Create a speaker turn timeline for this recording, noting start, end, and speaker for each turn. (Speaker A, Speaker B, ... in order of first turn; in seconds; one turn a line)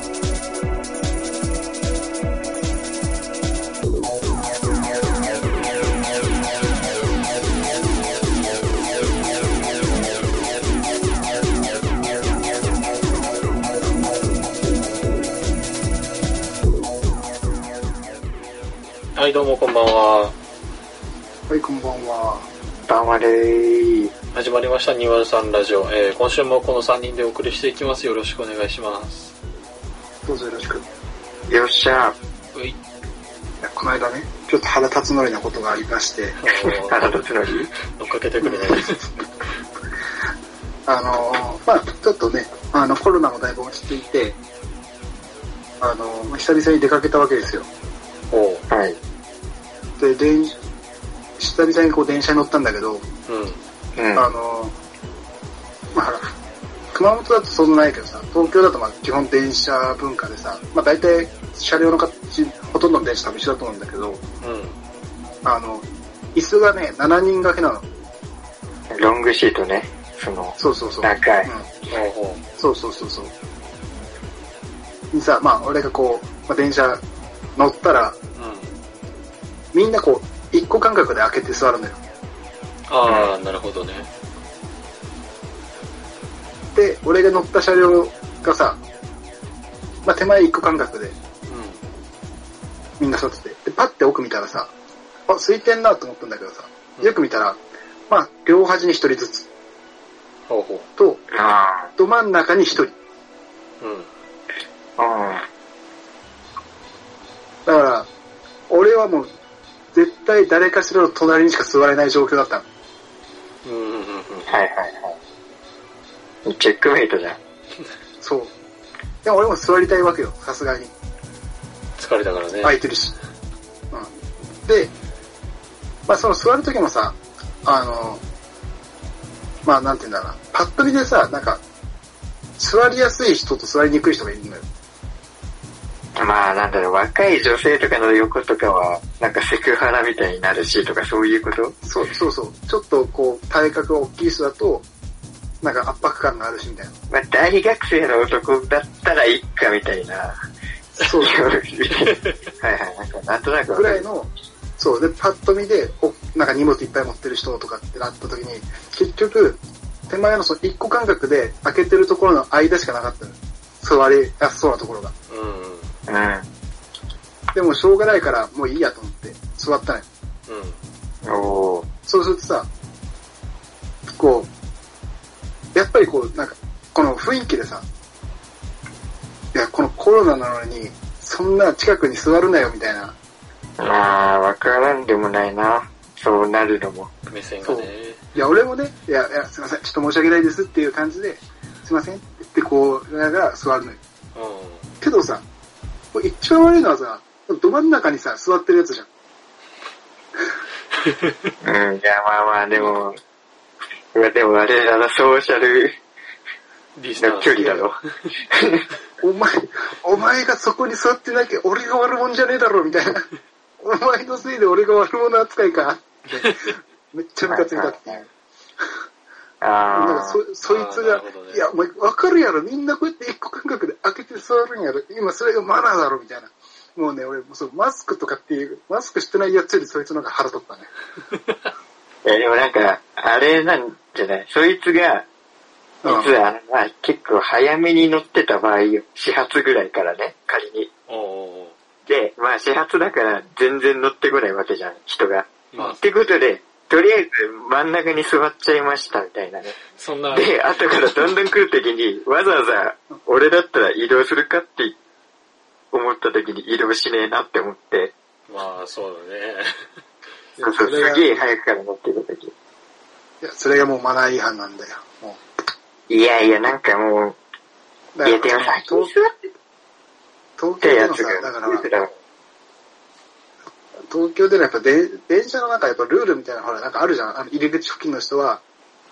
Speaker A: 19.2-20.4
Speaker B: 21.5-22.5
Speaker C: 22.9-24.1
Speaker A: 24.3-29.3
Speaker B: 30.2-30.9
Speaker C: 31.5-32.2
Speaker B: 33.6-36.4
Speaker A: 36.4-37.1
Speaker C: 36.9-37.7
Speaker A: 38.0-39.0
Speaker B: 38.4-38.8
Speaker B: 40.9-44.4
Speaker B: 45.8-47.7
Speaker A: 48.3-48.6
Speaker C: 48.7-49.0
Speaker B: 50.0-50.6
Speaker B: 51.4-53.1
Speaker A: 53.3-53.6
Speaker C: 54.0-54.3
Speaker B: 54.1-54.8
Speaker B: 55.9-56.3
Speaker B: 56.9-64.2
Speaker A: 64.4-64.8
Speaker B: 65.4-67.9
Speaker C: 68.9-71.5
Speaker B: 70.6-71.7
Speaker A: 71.9-72.4
Speaker B: 72.6-73.3
Speaker B: 75.1-77.0
Speaker B: 77.6-78.2
Speaker A: 78.4-78.7
Speaker B: 79.7-82.0
Speaker A: 82.9-84.1
Speaker B: 86.7-88.8
Speaker B: 90.0-91.2
Speaker A: 91.5-91.8
Speaker B: 93.0-94.7
Speaker B: 95.3-99.5
Speaker A: 97.0-97.2
Speaker A: 100.5-100.9
Speaker B: 101.0-101.2
Speaker C: 101.3-101.9
Speaker B: 102.0-102.9
Speaker A: 103.8-104.1
Speaker C: 105.0-105.5
Speaker B: 107.7-108.1
Speaker B: 108.7-109.3
Speaker B: 109.9-112.7
Speaker A: 113.6-114.5
Speaker C: 114.5-115.2
Speaker C: 116.5-117.4
Speaker B: 118.2-118.5
Speaker B: 119.2-120.9
Speaker A: 122.0-122.8
Speaker B: 122.6-123.2
Speaker B: 124.7-124.9
Speaker B: 126.1-128.2
Speaker B: 129.7-131.6
Speaker B: 132.6-134.7
Speaker C: 136.2-141.8
Speaker B: 141.8-144.9
Speaker B: 145.6-147.0
Speaker C: 147.1-150.4
Speaker B: 151.0-151.4
Speaker C: 151.2-154.1
Speaker B: 153.7-165.1
Speaker A: 165.3-165.9
Speaker C: 166.1-166.5
Speaker B: 167.5-170.1
Speaker A: 170.5-170.8
Speaker C: 171.2-171.9
Speaker B: 172.1-172.7
Speaker B: 174.1-174.5
Speaker B: 175.7-177.8
Speaker B: 179.5-183.2
Speaker C: 183.8-187.1
Speaker A: 183.8-184.2
Speaker A: 187.3-188.2
Speaker B: 187.6-194.0
Speaker A: 194.3-194.9
Speaker B: 195.0-195.4
Speaker B: 196.1-199.1
Speaker C: 201.6-203.2
Speaker B: 202.7-203.0
Speaker C: 204.1-206.0
Speaker A: 207.0-208.0
Speaker C: 207.2-208.0
Speaker C: 208.5-208.8
Speaker B: 209.2-213.3
Speaker B: 213.8-218.3
Speaker A: 216.4-216.7
Speaker C: 217.5-218.2
Speaker C: 219.6-220.4
Speaker B: 219.9-230.9
Speaker A: 220.6-221.7
Speaker C: 232.2-235.3
Speaker B: 236.0-236.3
Speaker C: 236.1-240.9
Speaker A: 241.1-241.8
Speaker C: 242.1-249.8
Speaker A: 245.7-246.0
Speaker A: 250.0-250.6
Speaker C: 250.3-255.0
Speaker C: 255.9-258.1
Speaker A: 258.5-259.7
Speaker B: 260.6-261.5
Speaker C: 260.6-262.5
Speaker B: 263.4-265.4
Speaker C: 266.1-267.4
Speaker B: 268.1-269.1
Speaker C: 268.2-269.5
Speaker B: 270.6-271.9
Speaker C: 270.8-272.1
Speaker B: 274.1-278.6